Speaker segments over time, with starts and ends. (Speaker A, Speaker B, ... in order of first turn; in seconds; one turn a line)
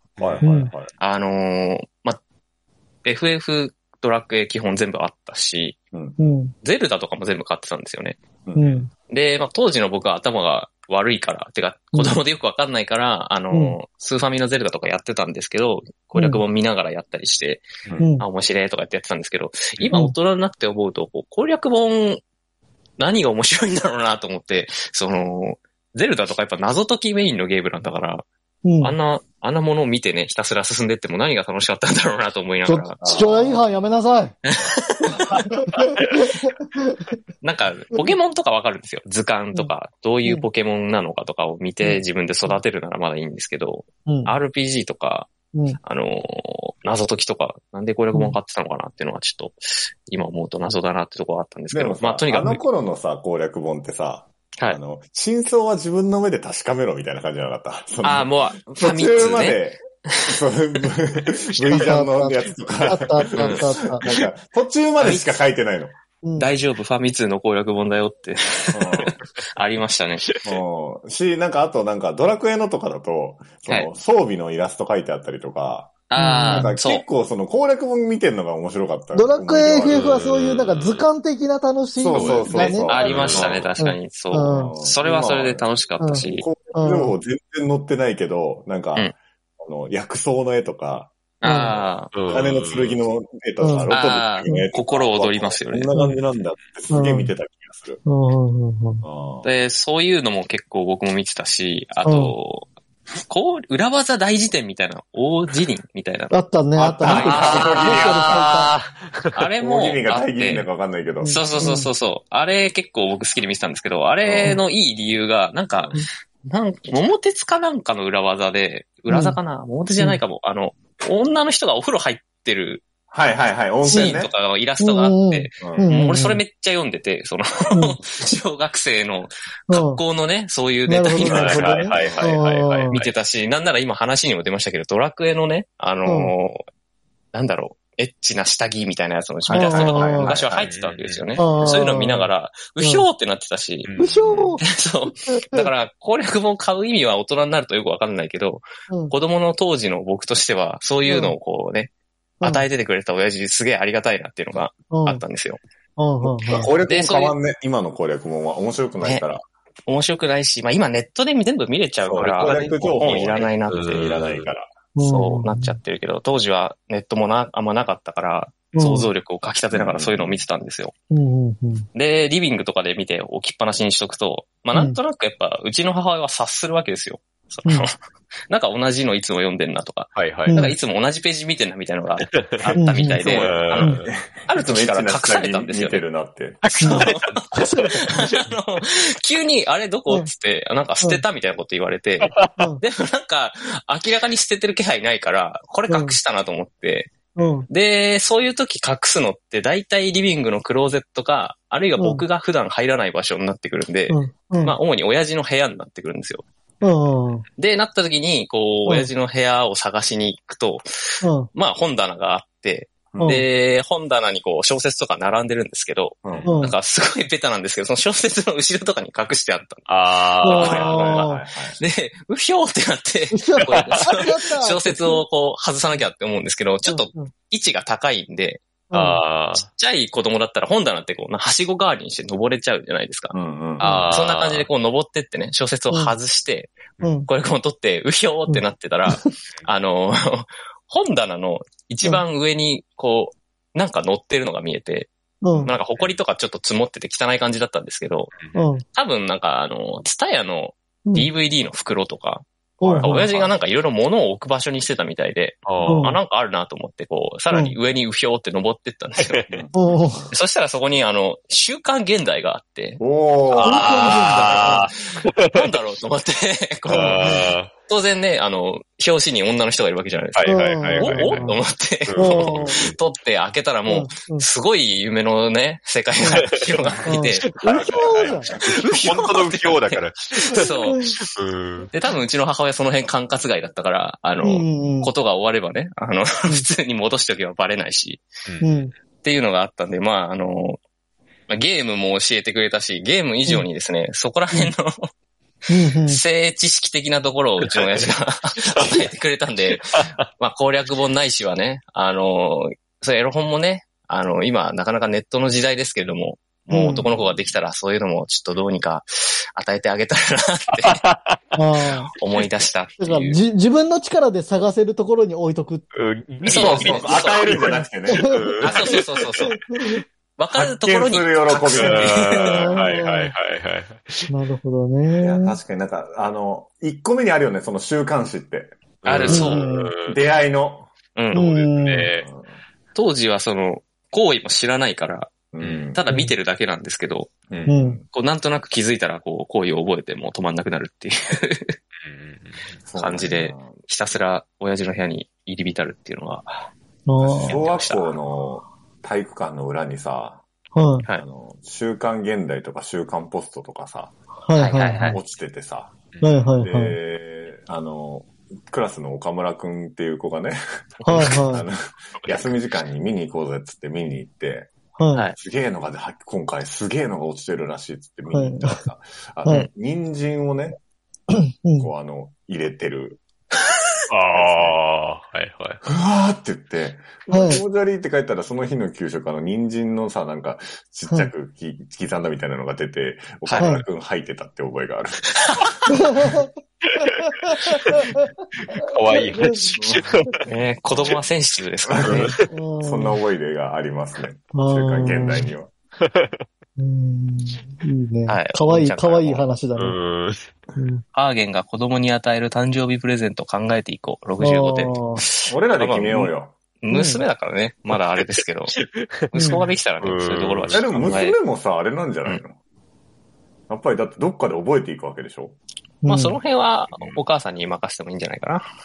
Speaker A: 0.2-0.9
Speaker B: 0.4-0.7
Speaker C: 1.0-2.2
Speaker C: 3.0-5.8
Speaker A: 5.9-6.3
Speaker B: 6.2-6.5
Speaker C: 6.6-8.2
Speaker A: 8.4-8.8
Speaker B: 8.6-8.9
Speaker C: 9.1-22.2
Speaker B: 13.5-13.8
Speaker B: 16.1-16.4
Speaker B: 18.0-18.2
Speaker C: 23.0-28.2
Speaker B: 28.6-28.9
Speaker C: 28.8-33.3
Speaker B: 32.6-34.4
Speaker A: 33.0-33.6
Speaker C: 34.5-35.6
Speaker B: 35.3-36.5
Speaker C: 37.4-45.3
Speaker B: 41.8-42.6
Speaker B: 44.1-44.4
Speaker C: 45.8-52.6
Speaker A: 51.7-66.0
Speaker C: 58.0-60.3
Speaker B: 61.7-64.0
Speaker C: 63.3-63.7
Speaker C: 65.0-65.3
Speaker B: 66.2-66.5
Speaker C: 66.4-70.4
Speaker A: 68.7-69.1
Speaker A: 70.4-80.1
Speaker C: 76.1-77.0
Speaker B: 76.2-76.7
Speaker B: 79.1-84.7
Speaker D: 79.9-81.0
Speaker A: 81.9-83.7
Speaker D: 82.1-83.7
Speaker C: 82.5-86.5
Speaker A: 84.5-85.7
Speaker B: 86.0-87.2
Speaker A: 86.3-98.0
Speaker C: 91.4-92.1
Speaker B: 91.4-91.7
Speaker D: 92.1-93.0
Speaker B: 93.6-94.6
Speaker C: 93.9-95.9
Speaker B: 96.9-97.3
Speaker B: 98.0-99.0
Speaker A: 99.0-99.5
Speaker C: 99.4-102.7
Speaker B: 102.0-102.3
Speaker C: 103.2-106.4
Speaker B: 106.3-108.7
Speaker A: 106.8-108.7
Speaker C: 107.0-108.4
Speaker D: 108.5-109.2
Speaker C: 109.3-110.7
Speaker A: 109.6-111.4
Speaker B: 111.2-111.9
Speaker C: 111.3-122.8
Speaker A: 114.2-114.6
Speaker B: 119.1-119.4
Speaker A: 123.1-124.3
Speaker B: 123.9-124.2
Speaker C: 123.9-131.9
Speaker B: 124.8-126.4
Speaker A: 125.6-125.9
Speaker B: 129.7-130.0
Speaker B: 130.8-132.9
Speaker D: 131.2-133.1
Speaker A: 131.3-132.3
Speaker C: 132.9-136.6
Speaker B: 136.1-136.3
Speaker C: 137.3-143.9
Speaker B: 139.5-140.4
Speaker A: 139.5-140.7
Speaker D: 140.7-141.5
Speaker B: 141.4-143.1
Speaker D: 143.8-144.6
Speaker B: 144.0-144.6
Speaker C: 144.6-151.9
Speaker B: 145.2-145.7
Speaker B: 151.1-151.3
Speaker B: 152.4-152.7
Speaker C: 152.4-155.6
Speaker B: 154.9-155.2
Speaker B: 156.0-156.7
Speaker A: 156.2-159.4
Speaker C: 156.8-157.3
Speaker C: 159.0-159.2
Speaker C: 159.9-164.1
Speaker A: 162.0-164.7
Speaker D: 162.4-164.5
Speaker B: 164.9-165.7
Speaker C: 165.0-170.9
Speaker B: 168.7-169.1
Speaker A: 169.7-170.4
Speaker B: 171.1-171.8
Speaker C: 171.9-177.9
Speaker C: 178.5-183.9
Speaker D: 180.2-180.7
Speaker B: 180.5-180.8
Speaker B: 182.8-183.2
Speaker A: 183.2-186.6
Speaker D: 183.2-184.0
Speaker B: 183.8-184.0
Speaker C: 184.4-186.0
Speaker D: 186.6-188.5
Speaker C: 186.7-197.2
Speaker B: 186.8-187.9
Speaker D: 192.2-192.6
Speaker B: 192.6-192.8
Speaker B: 195.9-196.2
Speaker B: 197.3-197.7
Speaker C: 197.7-206.4
Speaker B: 202.0-202.2
Speaker B: 204.1-204.8
Speaker B: 206.8-207.4
Speaker C: 207.6-210.8
Speaker B: 211.2-211.5
Speaker C: 211.5-219.8
Speaker A: 213.1-213.4
Speaker B: 213.2-213.4
Speaker A: 216.2-216.5
Speaker B: 216.4-216.8
Speaker D: 219.9-220.9
Speaker C: 220.4-228.6
Speaker B: 220.4-221.4
Speaker A: 220.6-221.8
Speaker B: 223.3-225.2
Speaker B: 226.8-227.3
Speaker B: 228.9-229.2
Speaker D: 228.9-229.7
Speaker C: 229.6-233.3
Speaker A: 233.3-233.9
Speaker D: 233.8-234.7
Speaker B: 233.8-234.1
Speaker C: 234.1-248.3
Speaker B: 235.9-236.2
Speaker B: 237.0-237.3
Speaker B: 238.5-239.3
Speaker B: 245.4-245.7
Speaker D: 248.3-248.6
Speaker B: 248.5-248.8
Speaker C: 248.9-252.4
Speaker B: 252.8-253.3
Speaker A: 252.8-253.6
Speaker C: 253.0-259.4
Speaker D: 255.7-256.0
Speaker B: 255.8-256.2
Speaker B: 257.5-257.8
Speaker D: 259.2-259.5
Speaker B: 259.7-260.3
Speaker C: 260.3-264.9
Speaker A: 263.0-264.5
Speaker B: 263.6-264.9
Speaker D: 264.4-265.6
Speaker C: 265.5-277.6
Speaker B: 266.9-267.5
Speaker D: 266.9-267.7
Speaker D: 270.3-271.5
Speaker B: 270.4-271.6
Speaker D: 272.1-272.9
Speaker B: 272.1-272.9
Speaker B: 273.9-274.4
Speaker D: 276.3-281.9
Speaker B: 277.1-278.5
Speaker C: 278.5-281.0
Speaker C: 281.9-288.2
Speaker B: 284.4-285.1
Speaker D: 288.4-288.8
Speaker B: 288.6-288.9
Speaker C: 289.2-290.8
Speaker C: 291.5-295.1
Speaker B: 295.7-296.2
Speaker C: 296.1-311.0
Speaker B: 306.7-307.1
Speaker D: 310.9-311.6
Speaker B: 311.5-312.1
Speaker C: 312.1-313.4
Speaker B: 313.0-315.9
Speaker D: 315.9-319.1
Speaker A: 316.4-318.9
Speaker C: 316.4-317.7
Speaker B: 318.1-318.4
Speaker C: 318.6-319.6
Speaker B: 319.4-320.0
Speaker C: 320.4-322.7
Speaker A: 320.5-322.5
Speaker D: 321.7-324.3
Speaker B: 322.5-323.3
Speaker B: 324.3-325.6
Speaker A: 325.2-328.8
Speaker D: 329.0-330.1
Speaker C: 329.0-329.7
Speaker B: 329.3-329.9
Speaker A: 330.0-330.9
Speaker C: 331.1-331.5
Speaker B: 331.3-332.1
Speaker D: 331.4-332.2
Speaker A: 332.2-332.6
Speaker C: 332.9-337.3
Speaker A: 335.5-336.0
Speaker D: 335.6-335.8
Speaker A: 337.5-338.0
Speaker B: 337.6-338.0
Speaker C: 338.1-341.8
Speaker D: 342.0-342.8
Speaker A: 342.9-343.8
Speaker C: 342.9-346.7
Speaker B: 347.1-347.6
Speaker A: 347.2-350.4
Speaker C: 347.4-348.2
Speaker B: 350.7-351.1
Speaker A: 351.1-354.1
Speaker B: 354.4-355.2
Speaker C: 354.6-355.2
Speaker A: 355.0-355.9
Speaker D: 356.1-356.4
Speaker B: 356.2-356.9
Speaker A: 356.6-360.6
Speaker C: 361.0-361.5
Speaker B: 361.1-361.6
Speaker A: 361.1-370.8
Speaker D: 362.2-362.5
Speaker B: 365.0-365.3
Speaker B: 368.3-368.8
Speaker B: 371.6-371.9
Speaker A: 371.8-373.2
Speaker D: 374.1-375.8
Speaker A: 374.3-374.8
Speaker A: 375.8-385.3
Speaker B: 377.3-377.6
Speaker C: 383.4-383.8
Speaker B: 383.6-383.8
Speaker B: 385.9-386.5
Speaker D: 386.9-388.1
Speaker B: 387.5-387.8
Speaker D: 388.7-391.2
Speaker B: 389.1-389.7
Speaker A: 389.8-390.0
Speaker C: 390.5-392.3
Speaker A: 391.9-395.7
Speaker D: 392.1-392.5
Speaker B: 392.5-393.2
Speaker B: 394.5-395.5
Speaker D: 396.0-396.4
Speaker B: 396.8-400.0
Speaker C: 398.3-399.4
Speaker D: 399.7-400.5
Speaker B: 400.8-401.0
Speaker C: 401.1-408.7
Speaker B: 404.4-405.2
Speaker A: 405.5-406.6
Speaker B: 406.9-407.2
Speaker D: 407.9-410.8
Speaker C: 409.3-411.4
Speaker B: 409.3-409.6
Speaker A: 410.7-412.6
Speaker A: 413.7-415.6
Speaker B: 416.0-416.4
Speaker C: 416.0-418.6
Speaker D: 416.9-417.2